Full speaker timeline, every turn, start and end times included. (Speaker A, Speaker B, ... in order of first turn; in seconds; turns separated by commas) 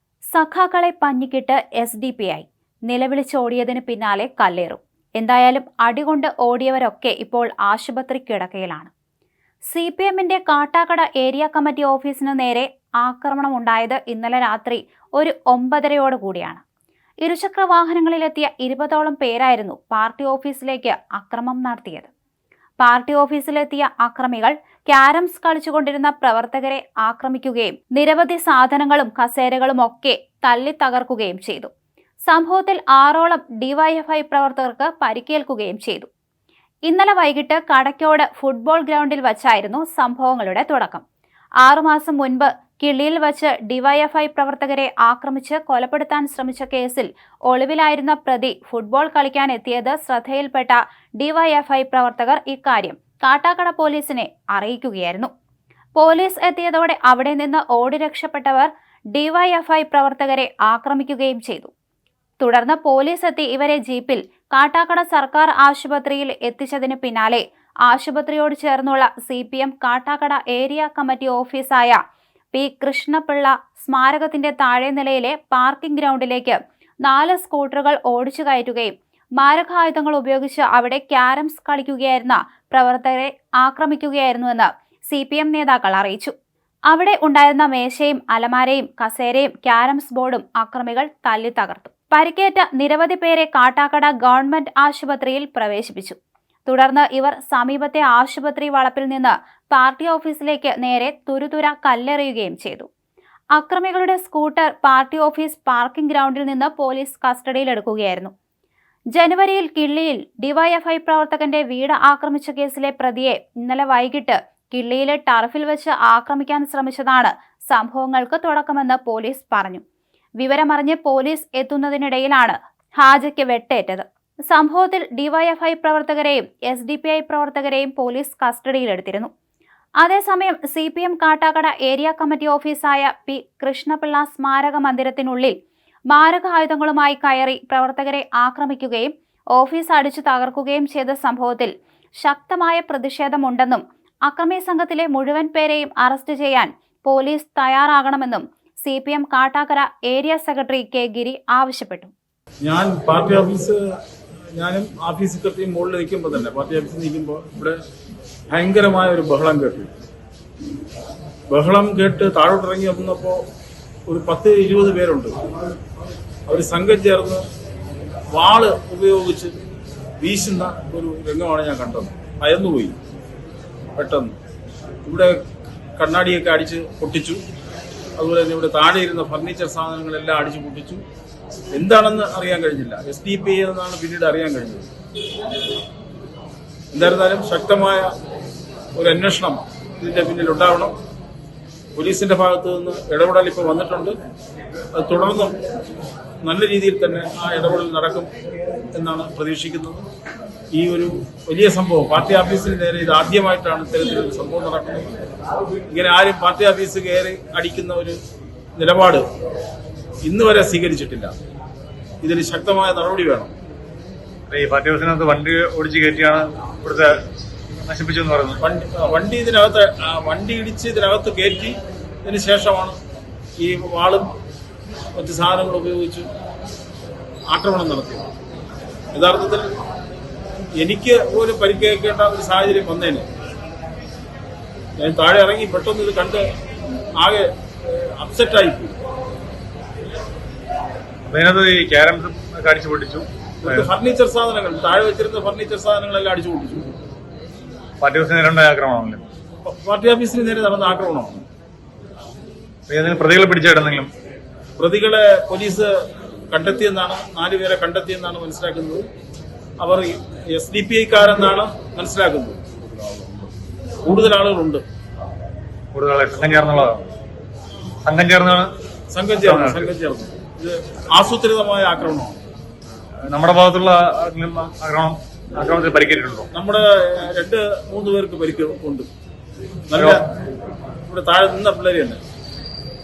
Speaker A: 0.3-8.9, Speaker A: 9.7-16.6, Speaker A: 17.2-22.1, Speaker A: 22.8-31.7, Speaker A: 32.3-36.1, Speaker A: 36.9-41.0, Speaker A: 41.6-55.3, Speaker A: 56.0-61.7, Speaker A: 62.4-72.0, Speaker A: 72.5-86.3, Speaker A: 86.9-102.9, Speaker A: 103.5-108.3, Speaker A: 109.1-119.8, Speaker A: 120.4-129.3, Speaker A: 130.0-135.5, Speaker A: 136.1-152.1, Speaker B: 152.6-153.8, Speaker B: 154.6-157.8, Speaker B: 158.5-159.9, Speaker B: 161.5-163.4, Speaker B: 164.1-165.4, Speaker B: 166.5-167.4, Speaker B: 168.3-169.6, Speaker B: 170.2-173.0, Speaker B: 174.0-174.4, Speaker B: 175.1-175.4, Speaker B: 176.0-177.4, Speaker B: 178.2-181.0, Speaker B: 181.7-184.9, Speaker B: 186.9-188.1, Speaker B: 189.0-190.9, Speaker B: 191.9-194.2, Speaker B: 195.0-195.6, Speaker B: 196.4-198.3, Speaker B: 198.9-200.1, Speaker B: 200.7-205.2, Speaker B: 205.9-208.2, Speaker B: 208.8-209.2, Speaker B: 210.2-211.3, Speaker B: 212.2-213.5, Speaker C: 214.5-217.1, Speaker C: 217.8-218.6, Speaker B: 218.6-223.0, Speaker B: 223.6-224.3, Speaker B: 225.2-226.3, Speaker B: 227.5-228.3, Speaker B: 229.1-229.7, Speaker B: 230.8-233.3, Speaker B: 235.0-236.5, Speaker B: 237.2-238.9, Speaker C: 241.3-243.9, Speaker B: 243.6-246.9, Speaker C: 248.0-249.2, Speaker B: 249.6-251.4, Speaker C: 252.9-254.1, Speaker B: 254.8-259.1, Speaker B: 259.8-262.7, Speaker B: 264.1-264.8, Speaker C: 265.9-267.0, Speaker C: 268.0-268.7, Speaker B: 269.1-272.4, Speaker C: 269.4-269.9, Speaker C: 273.3-276.5, Speaker B: 276.5-279.1, Speaker B: 279.9-280.3, Speaker B: 281.1-282.2